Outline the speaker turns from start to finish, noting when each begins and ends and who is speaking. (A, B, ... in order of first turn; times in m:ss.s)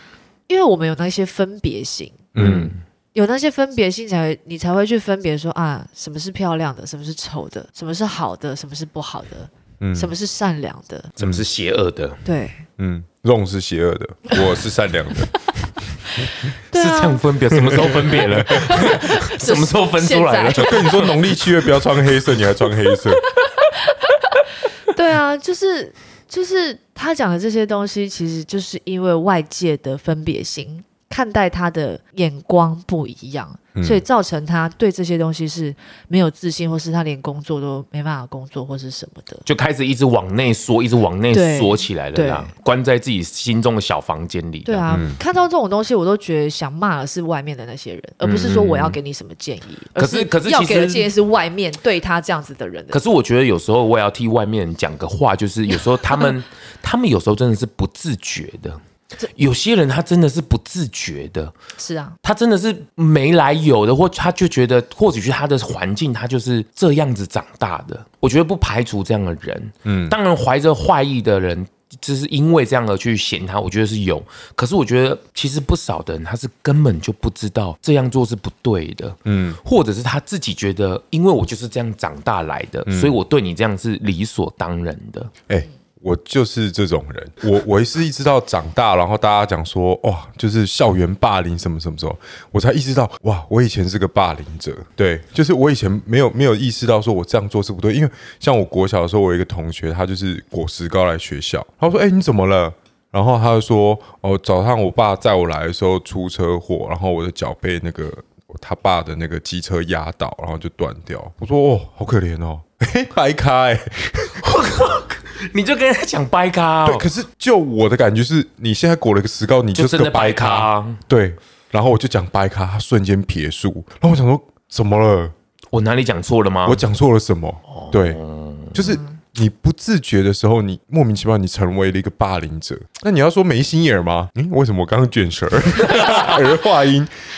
0:00.5-0:02.2 A
0:02.3-0:02.7 B
0:02.4-0:02.8 C
0:03.1-0:11.1 A
0:09.8-0:10.1 B
0:11.2-0:12.2 C
0:12.2-0:12.6 A
0:12.8-0:15.5 B
0:16.2-0:17.2 A
0:16.7-0:21.8 C
0:17.6-0:18.7 B
0:18.5-0:20.9 A
0:20.6-0:23.2 B
0:24.9-0:39.4 A
0:33.7-0:34.0 B
0:39.4-0:44.8 C
0:41.3-0:42.5 A
0:44.6-0:53.0 A
0:44.9-0:45.2 B
0:48.2-0:49.0 C
0:50.0-0:51.1 C
0:52.9-0:58.8 C
0:59.4-1:01.5 C
1:01.8-1:02.2 A
1:02.2-1:25.3 C
1:09.8-1:10.2 B
1:19.2-1:19.6 B
1:22.8-1:23.2 B
1:25.5-1:54.4 B
1:54.4-1:57.1 C
1:56.8-2:05.3 B
1:59.8-2:01.0 C
2:05.7-2:06.8 C
2:06.6-2:08.2 B
2:07.7-2:09.0 C
2:08.7-2:17.1 B
2:15.8-2:16.5 C